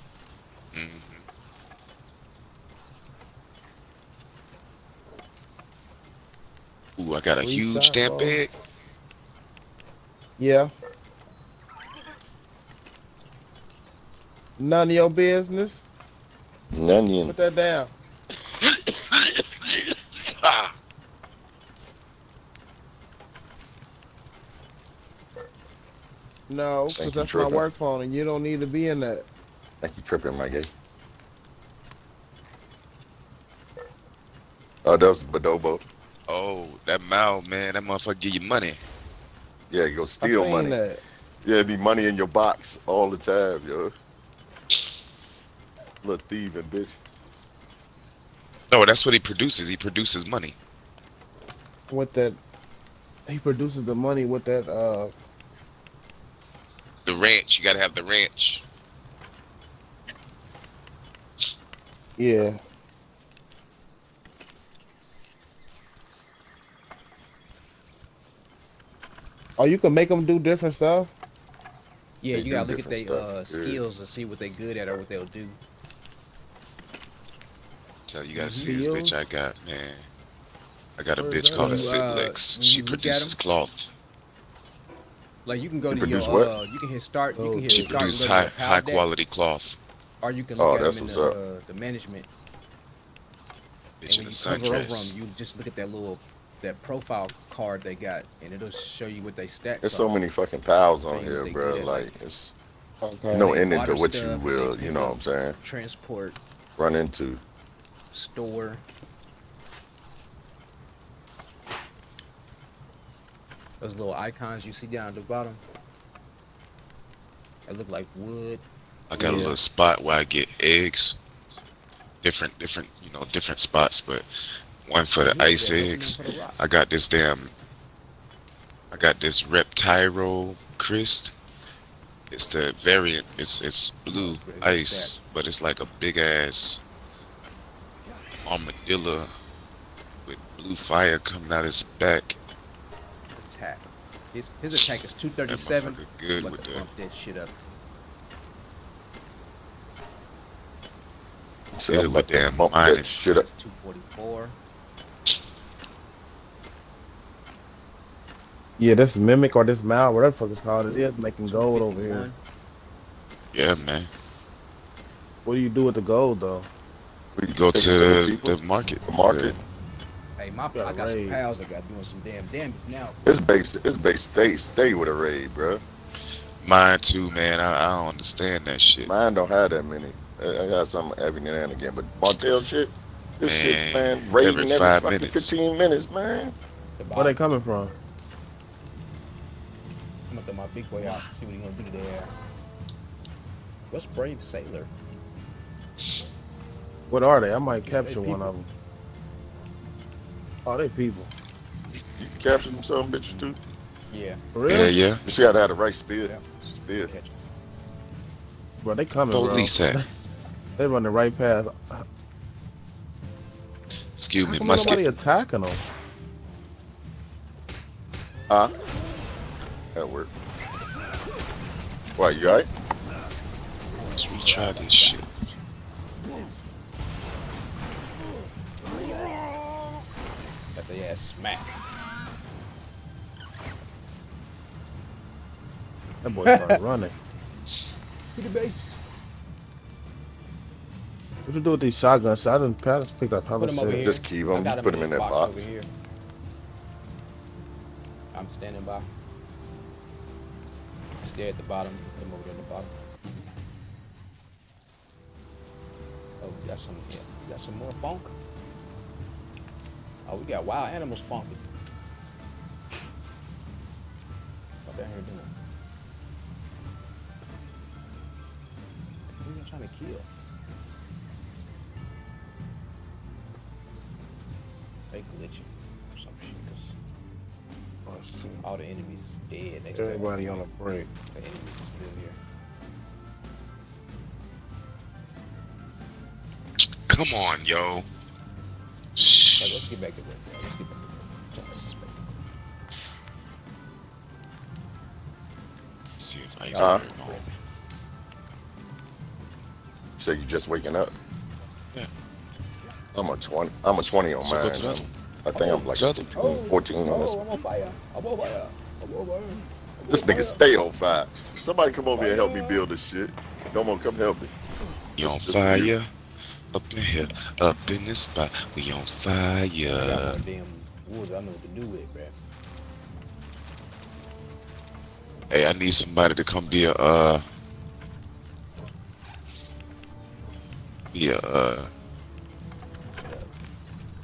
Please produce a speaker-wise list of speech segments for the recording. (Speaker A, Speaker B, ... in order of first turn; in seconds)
Speaker A: 0.7-1.2, 7.0-8.5, 20.4-20.7, 36.3-38.8, 48.7-50.5, 57.0-58.6, 78.1-80.1, 81.0-83.9, 87.7-89.8, 94.0-95.1, 119.1-121.2, 122.2-124.2, 124.8-127.5, 128.9-131.3, 132.3-136.8, 138.4-139.3, 140.2-142.4, 145.5-146.8, 151.9-153.1, 163.5-164.1, 167.5-169.6, 176.6-179.1, 183.4-185.5, 204.7-205.2, 209.3-210.0, 214.2-215.1, 224.0-225.3, 287.1-288.1, 289.1-289.9, 296.2-297.4, 304.4-305.1, 305.8-306.5, 315.2-316.1, 316.7-320.4, 325.5-327.4, 331.1-331.9
Speaker B: 7.4-8.4, 10.4-10.7, 14.6-15.9, 17.2-17.9, 26.5-29.3, 40.2-41.0, 51.9-52.4, 53.3-55.1, 62.2-62.6, 69.6-71.1, 78.3-79.3, 81.2-81.9, 87.3-88.0, 103.0-103.5, 119.2-119.5, 158.8-162.3, 165.4-166.7, 170.7-171.4, 187.1-187.9, 197.1-198.7, 200.6-201.3, 204.5-204.9, 208.8-210.1, 210.8-212.1, 214.4-215.8, 236.2-237.1, 241.4-244.1, 278.1-278.6, 279.9-281.1
Speaker C: 16.7-17.4, 26.9-27.7, 29.8-30.7, 34.8-35.8, 39.7-40.8, 41.4-43.9, 46.0-46.9, 72.3-73.8, 85.9-86.5, 90.6-91.4, 99.8-102.5, 103.3-105.5, 106.8-107.4, 151.7-153.5, 167.3-169.6, 173.2-175.8, 179.0-186.6, 202.1-203.6, 205.2-207.1, 218.5-218.8, 219.9-220.3, 222.2-222.7, 244.0-245.6, 296.8-297.1, 300.2-301.1, 303.1-307.3, 310.1-314.5, 315.2-315.9
Speaker D: 72.2-75.6, 81.5-83.4, 85.5-89.1, 90.2-92.3, 94.1-100.1, 101.1-102.1, 103.4-106.4, 108.1-108.8, 113.8-115.6, 117.7-118.6, 125.2-126.6, 134.1-135.2, 143.3-147.5, 153.2-154.6, 161.4-162.4, 170.4-173.2, 187.0-187.4, 190.3-192.3, 193.9-194.9, 197.8-198.5, 203.2-203.5, 204.1-204.4, 207.0-207.3, 223.9-225.2, 230.7-231.8, 236.3-236.8, 238.3-239.0, 243.6-245.9, 248.3-249.1, 251.2-252.9, 256.4-258.3, 260.3-261.6, 264.8-265.5, 269.4-270.3, 275.1-276.9, 278.6-280.4, 281.3-282.4, 289.6-292.2, 296.7-297.4, 305.5-310.6, 312.1-312.8, 319.8-322.4, 333.2-333.5